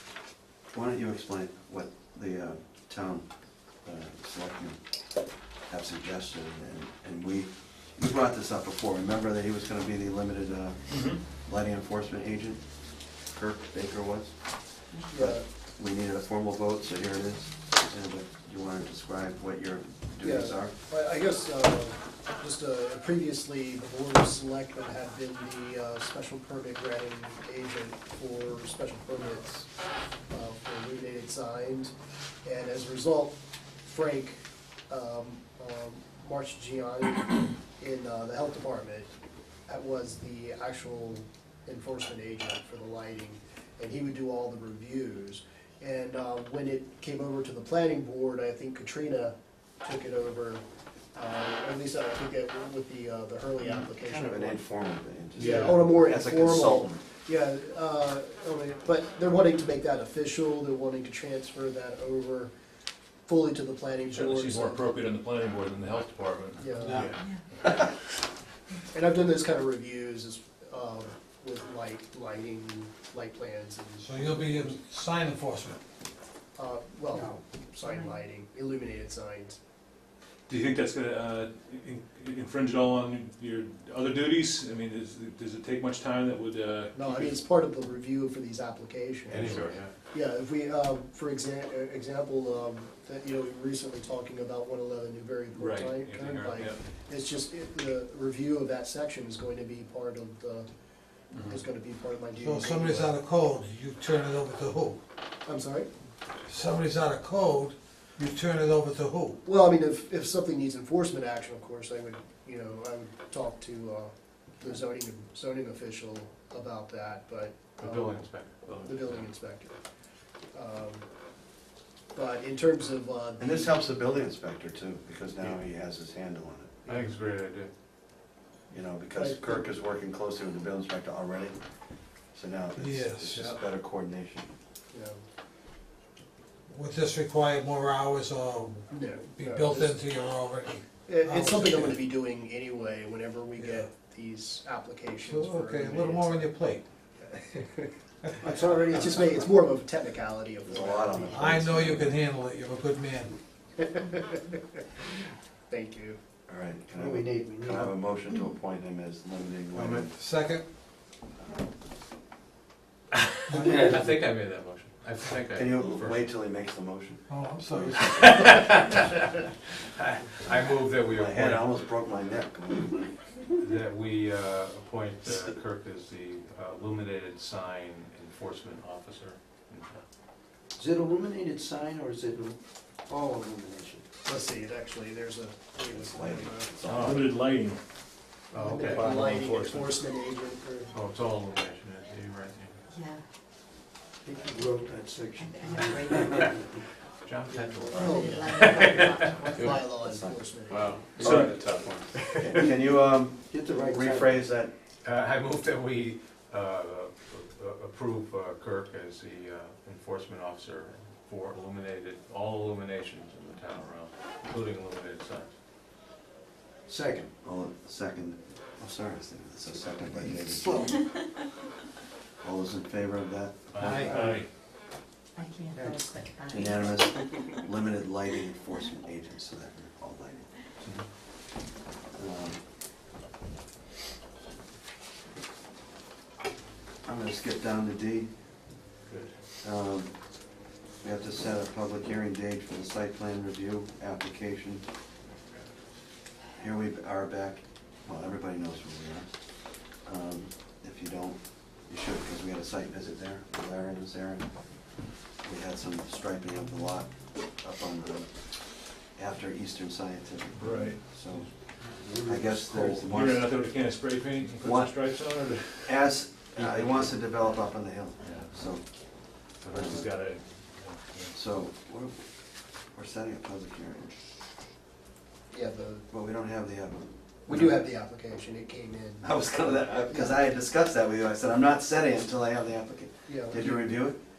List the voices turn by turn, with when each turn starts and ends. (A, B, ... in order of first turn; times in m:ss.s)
0:00.7-0:14.5 A
0:10.9-0:11.2 B
0:15.1-0:20.7 A
0:15.1-0:15.4 C
0:20.2-0:29.7 C
0:30.3-0:31.9 C
0:32.4-0:39.1 C
0:39.7-0:50.6 C
0:51.1-0:54.6 C
0:54.0-0:57.0 A
0:55.4-0:55.8 B
0:55.4-1:02.5 C
1:03.3-1:04.9 C
1:04.1-1:07.8 B
1:06.6-1:07.2 C
1:06.8-1:07.2 D
1:07.2-1:07.4 E
1:08.9-1:14.8 C
1:14.0-1:15.8 D
1:16.6-1:19.6 C
1:17.1-1:17.4 F
1:17.8-1:18.2 E
1:20.5-1:27.4 B
1:26.9-1:29.5 C
1:29.3-1:29.6 A
1:29.3-1:29.9 G
1:29.4-1:29.8 B
1:30.1-1:40.7 C
1:35.5-1:36.8 B
1:36.0-1:36.6 G
1:41.3-1:41.6 B
1:41.5-1:43.1 C
1:42.4-1:45.0 D
1:45.4-1:45.9 C
1:46.5-1:49.4 D
1:49.4-1:59.8 C
1:57.8-1:59.3 G
2:00.5-2:01.0 C
2:02.1-2:03.8 C
2:03.4-2:06.7 A
2:06.8-2:07.1 C
2:06.8-2:07.7 G
2:08.7-2:11.6 A
2:09.1-2:09.6 C
2:12.2-2:14.5 A
2:12.8-2:13.6 D
2:14.9-2:15.2 C
2:16.7-2:22.0 D
2:18.9-2:20.0 C
2:21.1-2:26.5 C
2:23.6-2:23.9 D
2:25.2-2:26.8 D
2:27.3-2:27.9 C
2:28.4-2:29.5 F
2:28.5-2:31.6 C
2:30.7-2:32.2 A
2:31.3-2:33.3 D
2:34.0-2:34.6 C
2:35.7-2:36.2 C
2:36.5-2:40.1 A
2:36.9-2:38.1 F
2:39.7-2:40.7 D
2:43.5-2:46.3 G
2:43.5-2:44.2 F
2:43.5-2:43.9 D
2:45.5-2:47.2 A
2:47.3-2:48.5 D
2:48.0-2:51.9 G
2:51.1-2:53.1 A
2:53.5-3:00.0 G
3:00.7-3:04.0 F
3:04.2-3:06.7 C
3:05.9-3:07.3 A
3:06.8-3:07.8 B
3:08.5-3:09.2 G
3:08.5-3:10.9 C
3:08.8-3:10.0 B
3:10.9-3:12.8 G
3:12.9-3:13.2 E
3:14.2-3:16.8 F
3:15.4-3:16.6 E
3:17.2-3:19.8 G
3:17.5-3:21.4 C
3:17.9-3:20.0 E
3:20.7-3:21.9 G
3:21.2-3:21.7 B
3:21.2-3:22.1 F
3:22.4-3:24.7 A
3:23.5-3:24.5 F
3:25.0-3:35.6 G
3:36.8-3:37.3 F
3:37.4-3:40.9 A
3:40.0-3:41.1 F
3:42.4-3:43.8 A
3:43.7-3:44.5 G
3:43.8-3:44.4 F
3:44.0-3:44.4 B
3:45.3-3:47.1 E
3:45.7-3:46.2 F
3:46.5-3:50.6 A
3:52.1-3:52.6 A
3:57.0-3:58.3 A
3:59.1-3:59.3 G
3:59.6-4:00.2 A
4:01.0-4:04.8 A
4:06.5-4:14.5 A
4:15.4-4:21.6 A
4:20.6-4:27.3 B
4:21.8-4:23.1 F
4:22.2-4:23.5 A
4:24.6-4:25.2 A
4:25.8-4:30.1 A
4:28.2-4:28.5 B
4:29.6-4:31.3 B
4:31.3-4:32.3 A
4:32.8-4:34.1 A
4:35.5-4:36.0 C
4:36.1-4:37.8 A
4:37.4-4:39.4 C
4:39.2-4:44.2 A
4:40.1-4:40.4 C
4:43.2-4:43.9 C